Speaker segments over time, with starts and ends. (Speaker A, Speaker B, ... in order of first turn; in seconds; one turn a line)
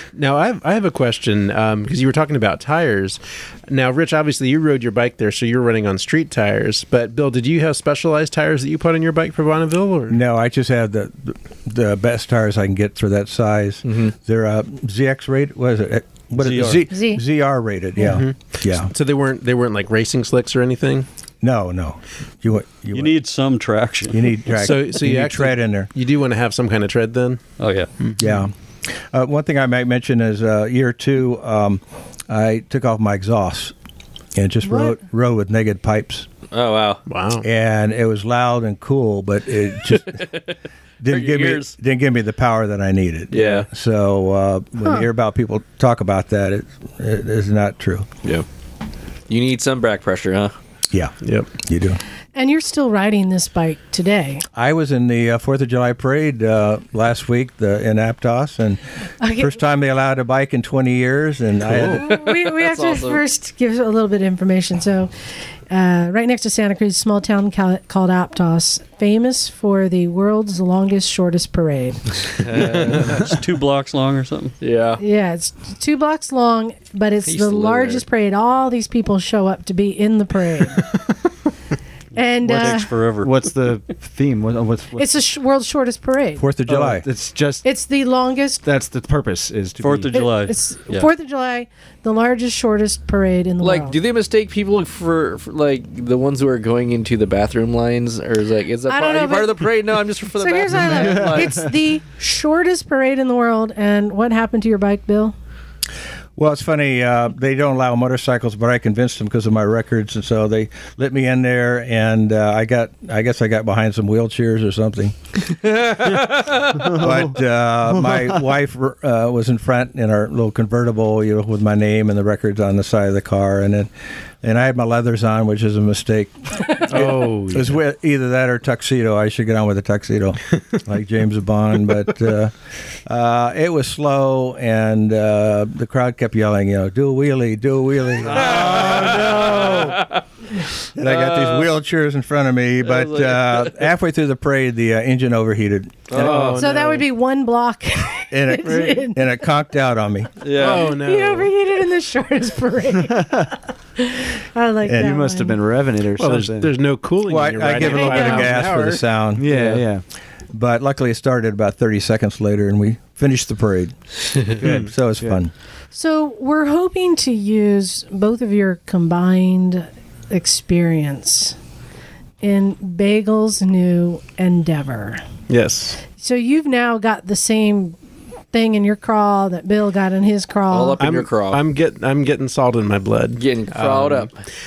Speaker A: 0.1-10.2
Speaker B: 10.1-18.9
Speaker C: 13.8-14.1
Speaker D: 16.4-16.9
Speaker E: 16.9-17.2
Speaker A: 18.0-21.1
Speaker B: 21.4-23.2
Speaker D: 22.9-24.3
Speaker B: 24.1-25.9
Speaker A: 24.5-27.4
Speaker D: 27.6-27.9
Speaker A: 28.0-28.4
Speaker B: 28.2-28.5
Speaker B: 29.1-33.7
Speaker B: 34.4-36.3
Speaker E: 34.6-35.0
Speaker C: 36.5-37.0
Speaker A: 37.1-37.5
Speaker B: 37.4-40.2
Speaker C: 39.9-40.5
Speaker B: 41.0-48.1
Speaker C: 41.1-41.8
Speaker C: 43.3-43.7
Speaker C: 49.3-50.5
Speaker B: 50.9-52.0
Speaker A: 51.2-51.5
Speaker E: 52.4-54.5
Speaker B: 54.5-58.8
Speaker E: 59.2-59.6
Speaker B: 59.4-62.1
Speaker E: 61.8-65.1
Speaker C: 61.9-63.2
Speaker E: 65.7-72.2
Speaker C: 72.4-73.3
Speaker D: 72.8-74.5
Speaker C: 74.6-75.0
Speaker E: 75.0-80.9
Speaker C: 77.3-78.0
Speaker E: 82.1-82.9
Speaker D: 82.4-83.3
Speaker F: 82.5-85.1
Speaker E: 85.0-86.5
Speaker B: 86.4-87.1
Speaker F: 86.7-87.7
Speaker E: 87.6-88.6
Speaker F: 88.6-90.2
Speaker D: 89.8-91.1
Speaker E: 90.1-94.0
Speaker C: 93.6-101.7
Speaker E: 98.9-99.7
Speaker E: 100.4-105.3
Speaker F: 100.9-101.5
Speaker B: 106.4-115.1
Speaker C: 115.5-116.9
Speaker F: 116.8-117.3
Speaker B: 116.9-123.9
Speaker F: 117.9-118.4
Speaker B: 124.4-132.5
Speaker A: 126.9-127.8
Speaker B: 133.1-140.0
Speaker C: 138.2-140.2
Speaker A: 138.6-139.2
Speaker B: 141.0-146.5
Speaker C: 141.0-141.7
Speaker C: 142.8-143.9
Speaker C: 146.1-146.7
Speaker A: 146.1-147.1
Speaker E: 146.5-149.4
Speaker B: 148.3-150.4
Speaker A: 148.6-149.0
Speaker C: 150.4-150.9
Speaker A: 150.5-151.5
Speaker E: 150.6-155.6
Speaker F: 153.1-153.5
Speaker B: 154.9-155.1
Speaker F: 154.9-156.7
Speaker A: 156.2-159.1
Speaker B: 157.3-159.7
Speaker E: 157.8-158.6
Speaker F: 159.3-160.0
Speaker B: 160.5-165.5
Speaker E: 165.9-171.6
Speaker E: 172.4-175.2
Speaker A: 175.5-176.0
Speaker E: 176.0-178.0
Speaker E: 178.5-181.0
Speaker C: 180.7-181.6
Speaker A: 181.0-184.3
Speaker C: 183.4-184.3